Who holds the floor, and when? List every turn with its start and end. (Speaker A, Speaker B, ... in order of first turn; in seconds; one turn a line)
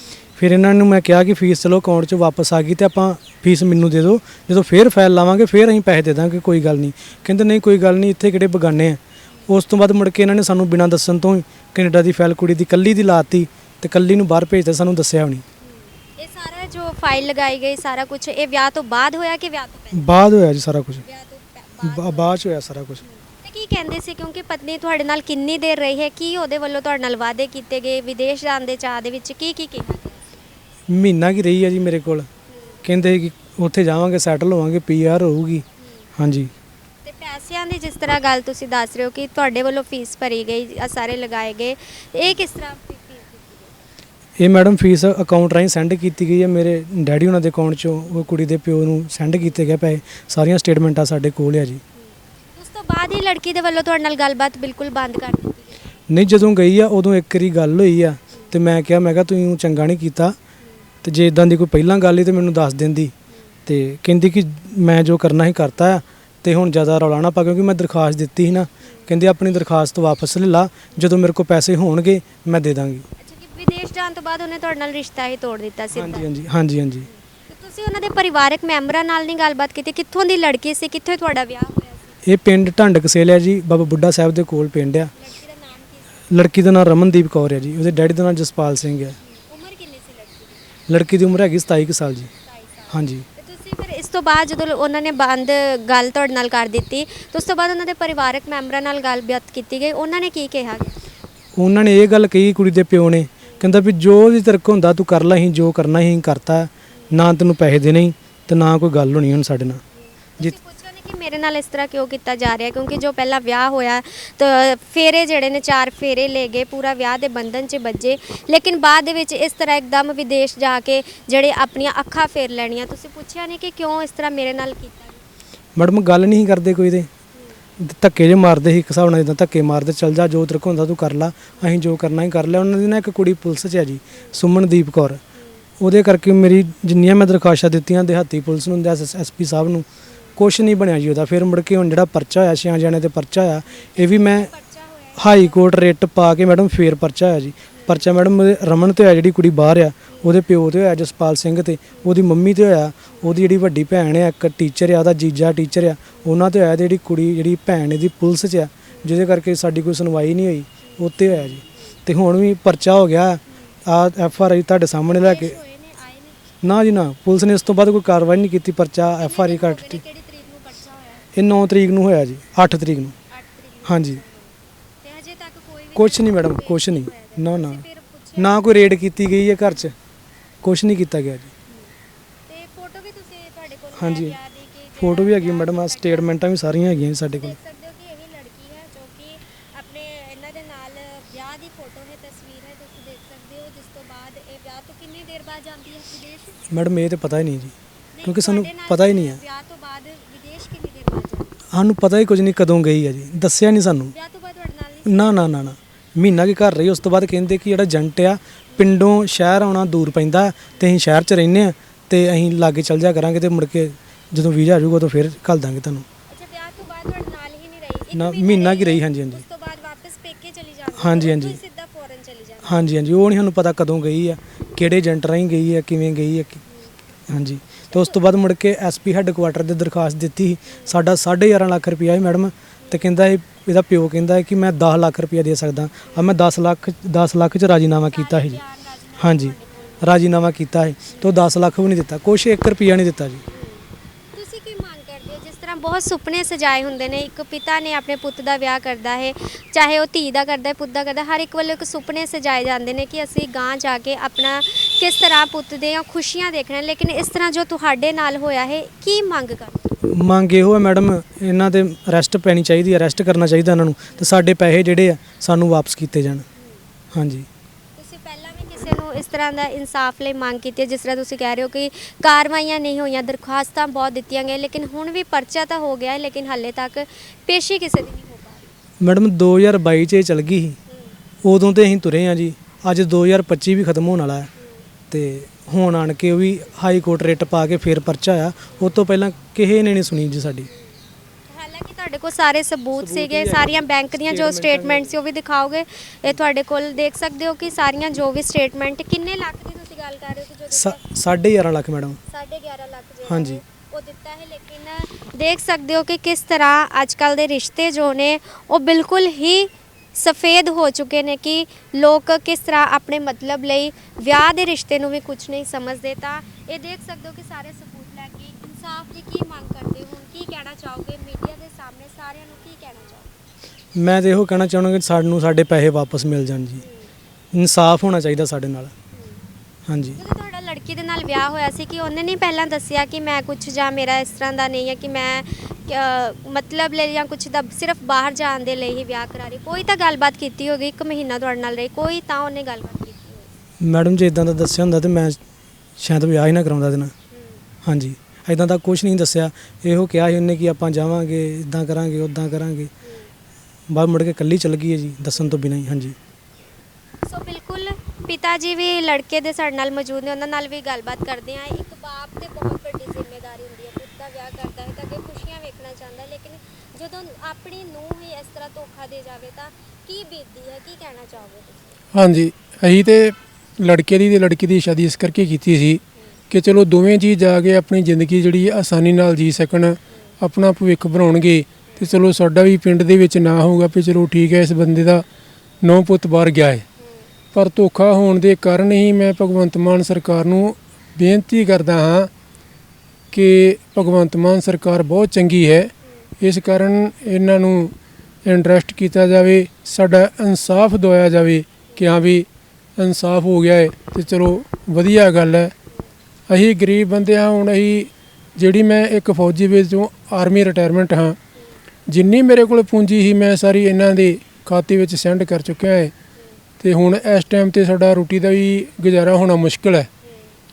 Speaker A: 0.4-15.4
Speaker B: 15.6-20.1
Speaker A: 19.9-21.0
Speaker B: 21.0-22.4
Speaker A: 21.8-23.0
Speaker B: 23.0-30.2
Speaker A: 30.9-32.3
Speaker B: 32.5-32.8
Speaker A: 32.8-35.6
Speaker A: 36.2-36.5
Speaker B: 37.0-43.7
Speaker A: 44.4-51.8
Speaker B: 52.0-55.8
Speaker A: 56.1-60.4
Speaker A: 61.0-63.1
Speaker A: 63.6-73.0
Speaker B: 73.2-76.3
Speaker A: 75.9-77.1
Speaker B: 77.0-82.2
Speaker A: 82.2-85.1
Speaker B: 85.1-86.2
Speaker A: 86.3-89.2
Speaker B: 89.2-90.7
Speaker A: 90.9-92.3
Speaker B: 92.4-101.0
Speaker A: 92.9-93.2
Speaker A: 101.5-109.8
Speaker B: 110.0-125.2
Speaker A: 125.8-127.1
Speaker A: 127.8-135.2
Speaker B: 135.3-135.6
Speaker A: 135.8-139.8
Speaker A: 140.4-144.5
Speaker B: 143.7-145.8
Speaker A: 145.2-165.6
Speaker B: 147.7-148.1
Speaker B: 165.1-166.5
Speaker A: 166.6-170.0
Speaker B: 169.2-171.3
Speaker A: 171.3-173.1
Speaker B: 173.3-178.7
Speaker A: 173.8-174.2
Speaker A: 175.9-177.8
Speaker A: 178.4-179.9
Speaker A: 180.6-181.5
Speaker B: 181.7-181.9
Speaker B: 182.5-186.3
Speaker A: 184.0-184.4
Speaker A: 185.0-187.6
Speaker B: 187.3-196.6
Speaker A: 196.7-199.4
Speaker B: 198.1-201.6
Speaker A: 201.7-204.1
Speaker B: 204.1-205.6
Speaker A: 205.1-216.0
Speaker B: 216.3-222.9
Speaker A: 218.1-219.4
Speaker A: 221.0-221.6
Speaker A: 222.6-226.6
Speaker A: 227.3-238.6
Speaker B: 227.9-228.2
Speaker B: 230.7-230.9
Speaker B: 232.8-233.1
Speaker B: 236.0-236.3
Speaker B: 238.0-240.2
Speaker A: 239.2-243.4
Speaker B: 243.5-260.1
Speaker A: 260.1-266.4
Speaker B: 266.5-266.9
Speaker A: 267.1-267.5
Speaker B: 267.9-278.7
Speaker A: 279.0-280.8
Speaker B: 280.9-281.2
Speaker A: 281.4-284.5
Speaker B: 284.6-284.9
Speaker A: 285.1-290.7
Speaker B: 290.7-301.0
Speaker A: 292.9-295.1
Speaker A: 300.7-302.2
Speaker B: 302.3-323.3
Speaker A: 303.3-303.6
Speaker A: 323.9-326.8
Speaker B: 326.8-327.1
Speaker A: 327.5-328.9
Speaker B: 329.1-329.4
Speaker A: 329.9-330.2
Speaker B: 330.1-343.5
Speaker A: 343.8-345.4
Speaker A: 346.0-347.1
Speaker B: 347.3-347.6
Speaker A: 347.8-352.9
Speaker B: 353.0-353.3
Speaker A: 353.9-356.2
Speaker B: 357.2-371.9
Speaker C: 372.1-385.2
Speaker B: 381.9-382.2
Speaker C: 385.8-386.8
Speaker B: 387.0-387.3
Speaker C: 387.5-392.3
Speaker C: 393.3-405.7
Speaker B: 396.0-396.3
Speaker B: 401.9-402.1
Speaker C: 406.5-411.4
Speaker C: 412.1-416.1
Speaker C: 416.8-420.1
Speaker B: 420.2-420.5